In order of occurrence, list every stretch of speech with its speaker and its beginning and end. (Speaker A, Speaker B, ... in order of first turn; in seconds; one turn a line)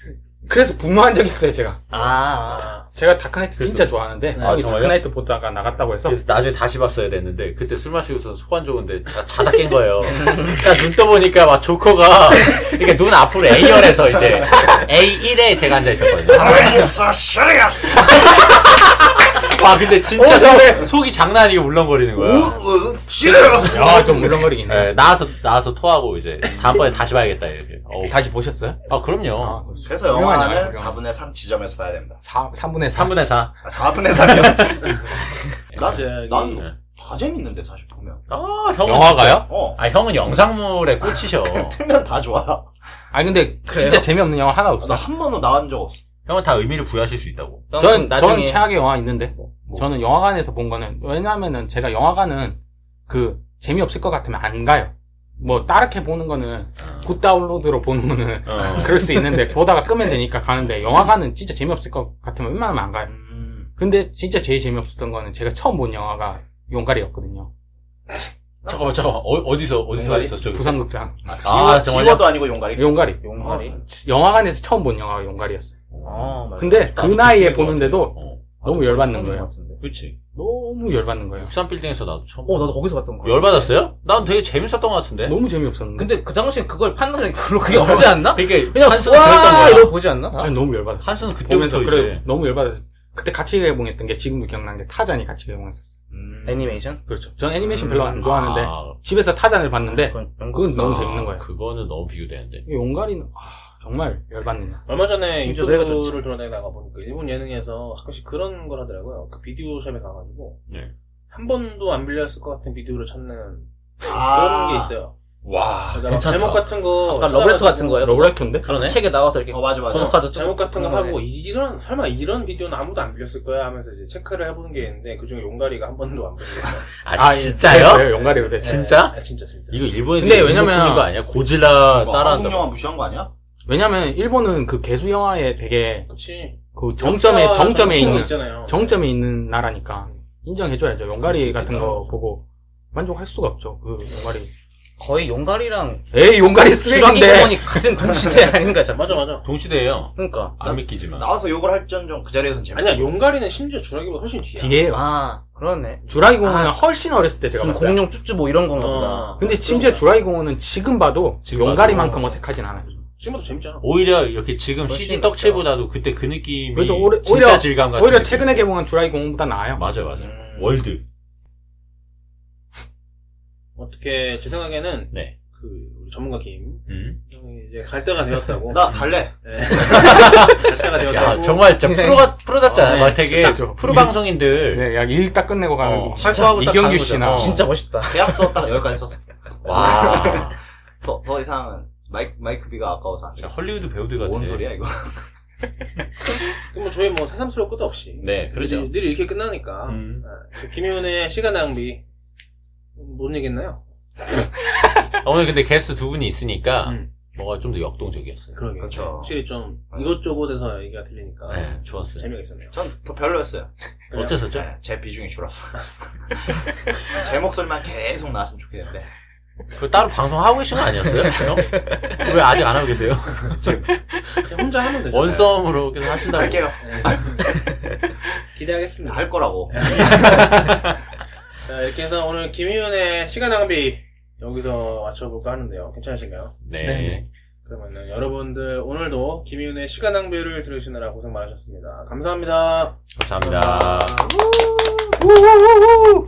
Speaker A: 0.5-1.8
Speaker B: 1.9-2.7
Speaker C: 1.9-2.9
Speaker A: 2.9-6.2
Speaker D: 3.6-5.1
Speaker C: 4.3-4.7
Speaker D: 6.0-16.7
Speaker E: 16.3-18.5
Speaker D: 18.1-22.6
Speaker A: 20.1-20.9
Speaker E: 22.2-24.5
Speaker A: 23.7-24.9
Speaker D: 24.6-28.3
Speaker A: 28.1-31.0
Speaker D: 28.9-29.6
Speaker E: 29.8-32.2
Speaker A: 32.2-33.2
Speaker D: 32.9-33.5
Speaker E: 33.6-35.1
Speaker D: 34.2-34.9
Speaker D: 35.7-36.0
Speaker E: 35.7-38.2
Speaker C: 35.8-36.6
Speaker D: 38.3-41.8
Speaker A: 38.8-39.5
Speaker E: 39.4-39.8
Speaker E: 41.0-42.7
Speaker A: 43.1-45.1
Speaker B: 43.7-44.1
Speaker E: 44.8-46.0
Speaker D: 46.2-47.7
Speaker B: 47.7-48.7
Speaker A: 47.8-63.1
Speaker D: 56.8-57.1
Speaker D: 58.5-59.3
Speaker E: 63.1-63.7
Speaker A: 63.8-67.5
Speaker E: 68.7-68.9
Speaker D: 68.7-70.9
Speaker E: 70.0-70.3
Speaker A: 70.5-71.2
Speaker E: 71.3-73.2
Speaker D: 71.4-72.5
Speaker A: 72.7-75.8
Speaker B: 73.2-73.8
Speaker D: 75.9-78.9
Speaker B: 76.0-77.3
Speaker A: 76.6-79.5
Speaker B: 78.7-79.8
Speaker D: 79.8-80.2
Speaker A: 80.3-81.5
Speaker D: 81.4-85.4
Speaker B: 82.5-83.8
Speaker A: 85.2-86.1
Speaker B: 86.0-90.5
Speaker D: 87.6-90.0
Speaker A: 90.4-96.0
Speaker D: 91.0-92.2
Speaker E: 96.1-96.8
Speaker B: 96.5-97.0
Speaker A: 97.1-101.5
Speaker B: 97.7-98.1
Speaker D: 97.8-99.0
Speaker B: 99.8-101.0
Speaker D: 100.7-102.6
Speaker A: 102.7-104.8
Speaker C: 104.9-110.6
Speaker B: 105.4-106.2
Speaker C: 111.3-115.2
Speaker E: 114.0-114.9
Speaker D: 115.4-116.8
Speaker C: 115.9-118.2
Speaker B: 117.0-121.2
Speaker A: 118.0-118.7
Speaker D: 118.6-119.0
Speaker E: 119.5-120.2
Speaker C: 119.9-126.9
Speaker D: 127.0-129.2
Speaker A: 127.1-128.9
Speaker C: 128.6-130.0
Speaker D: 129.7-132.7
Speaker A: 130.2-131.1
Speaker E: 131.9-133.3
Speaker A: 133.7-136.1
Speaker C: 136.1-139.0
Speaker A: 136.7-144.5
Speaker D: 141.3-142.0
Speaker B: 145.0-146.1
Speaker A: 146.1-148.2
Speaker B: 146.8-149.4
Speaker C: 148.9-149.5
Speaker D: 149.4-151.3
Speaker B: 150.2-150.6
Speaker E: 150.6-153.2
Speaker C: 152.7-154.9
Speaker A: 154.6-155.0
Speaker B: 154.9-156.8
Speaker A: 156.1-158.0
Speaker B: 157.6-159.4
Speaker C: 158.7-160.1
Speaker A: 159.4-163.0
Speaker D: 161.5-162.3
Speaker C: 163.2-163.9
Speaker D: 163.8-168.7
Speaker B: 164.9-165.7
Speaker A: 166.7-169.9
Speaker D: 169.8-171.0
Speaker E: 170.2-170.9
Speaker C: 173.8-181.8
Speaker D: 176.9-177.2
Speaker E: 178.7-180.2
Speaker D: 179.8-184.9
Speaker B: 181.8-182.3
Speaker C: 182.8-183.2
Speaker A: 182.8-187.7
Speaker D: 185.8-187.7
Speaker B: 186.2-186.7
Speaker B: 187.2-188.6
Speaker E: 188.0-195.2
Speaker D: 189.6-190.6
Speaker D: 193.4-194.7
Speaker C: 196.7-202.0
Speaker D: 198.2-198.9
Speaker D: 199.9-200.3
Speaker C: 203.0-203.8
Speaker D: 205.2-208.6
Speaker C: 206.8-207.1
Speaker C: 208.6-212.8
Speaker E: 208.8-209.3
Speaker D: 211.5-212.3
Speaker E: 212.7-213.7
Speaker C: 214.1-214.4
Speaker D: 214.1-214.7
Speaker E: 214.5-215.8
Speaker E: 216.3-219.1
Speaker D: 219.7-224.5
Speaker C: 224.4-225.7
Speaker D: 225.1-226.8
Speaker E: 226.3-227.4
Speaker C: 226.8-227.4
Speaker C: 228.6-230.5
Speaker E: 229.1-230.5
Speaker D: 229.9-231.0
Speaker C: 231.7-236.6
Speaker D: 236.6-237.2
Speaker B: 236.9-237.2
Speaker C: 237.7-243.0
Speaker D: 243.2-244.2
Speaker B: 243.6-244.1
Speaker E: 244.5-245.7